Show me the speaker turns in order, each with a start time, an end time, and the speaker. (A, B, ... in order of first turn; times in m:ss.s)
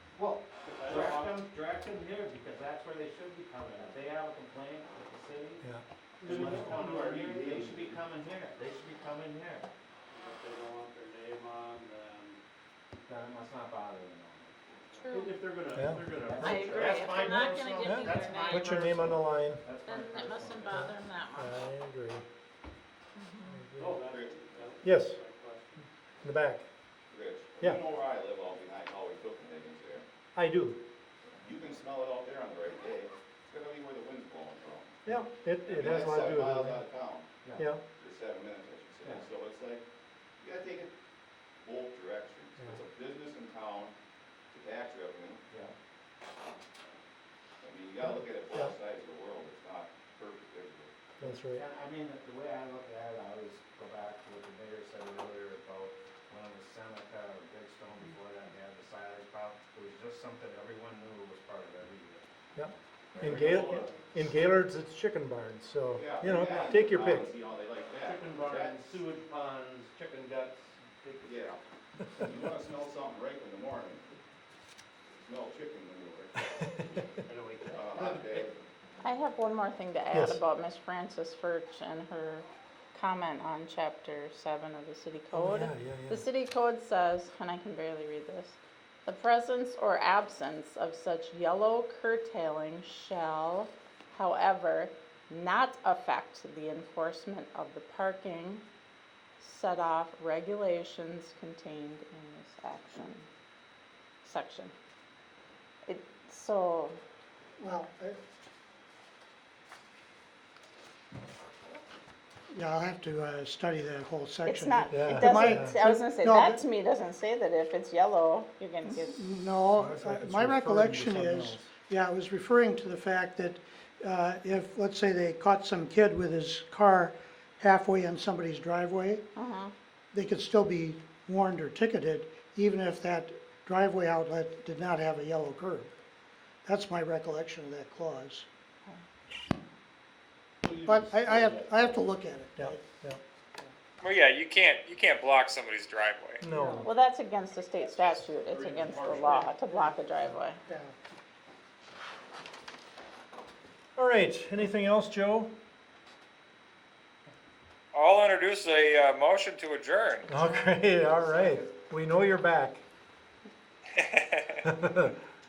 0:00.1-0:05.7 A
0:00.6-0:01.5 B
0:05.6-0:07.0 C
0:06.2-0:09.7 A
0:06.6-0:07.7 B
0:10.1-0:12.4 B
0:13.0-0:14.6 A
0:14.9-0:15.3 B
0:14.9-0:15.3 D
0:15.1-0:20.9 A
0:15.7-0:16.7 C
0:16.4-0:18.8 D
0:17.8-0:19.6 C
0:19.8-0:21.6 D
0:20.7-0:22.2 C
0:23.2-0:23.6 D
0:23.5-0:24.0 C
0:23.8-0:25.8 B
0:23.9-0:24.7 E
0:24.8-0:25.2 C
0:26.2-0:26.6 C
0:27.1-0:30.0 E
0:30.3-0:30.8 C
0:31.4-0:35.0 E
0:35.0-0:36.8 C
0:35.7-0:37.3 E
0:37.4-0:37.7 A
0:37.6-0:37.8 C
0:38.0-0:39.8 E
0:39.0-0:39.3 A
0:40.4-0:40.9 E
0:41.6-0:43.9 E
0:44.5-0:45.4 E
0:45.5-0:45.7 A
0:47.6-0:50.9 E
0:51.2-0:51.6 C
0:51.2-1:02.2 A
1:02.6-1:07.3 C
1:03.2-1:03.9 E
1:03.3-1:04.0 A
1:05.9-1:09.0 E
1:08.0-1:11.4 A
1:11.2-1:11.6 E
1:12.2-1:14.0 E
1:15.2-1:16.4 E
1:17.1-1:18.5 A
1:17.7-1:18.5 E
1:19.0-1:38.6 D
1:20.1-1:20.4 C
1:25.3-1:26.2 C
1:39.4-1:43.2 D
1:44.2-1:44.7 D
1:45.8-1:47.0 D
1:47.6-1:48.2 F
1:52.5-1:56.6 F
1:54.4-1:59.3 D
1:54.9-1:55.8 C
1:58.8-2:09.2 F
1:59.7-2:01.7 C
2:09.4-2:09.7 D
2:10.1-2:15.9 F
2:16.6-2:18.4 F
2:20.6-2:22.0 A
2:20.8-2:22.9 F
2:22.6-2:23.2 C
2:24.0-2:26.4 G
2:26.4-2:26.9 C
2:26.8-2:30.6 D
2:27.8-2:29.5 E
2:30.7-2:30.9 F
2:34.0-2:35.5 C
2:37.9-2:40.3 G
2:40.3-2:42.8 C
2:40.3-2:40.8 D
2:41.2-2:41.7 A
2:44.0-2:44.6 G
2:44.6-2:45.1 C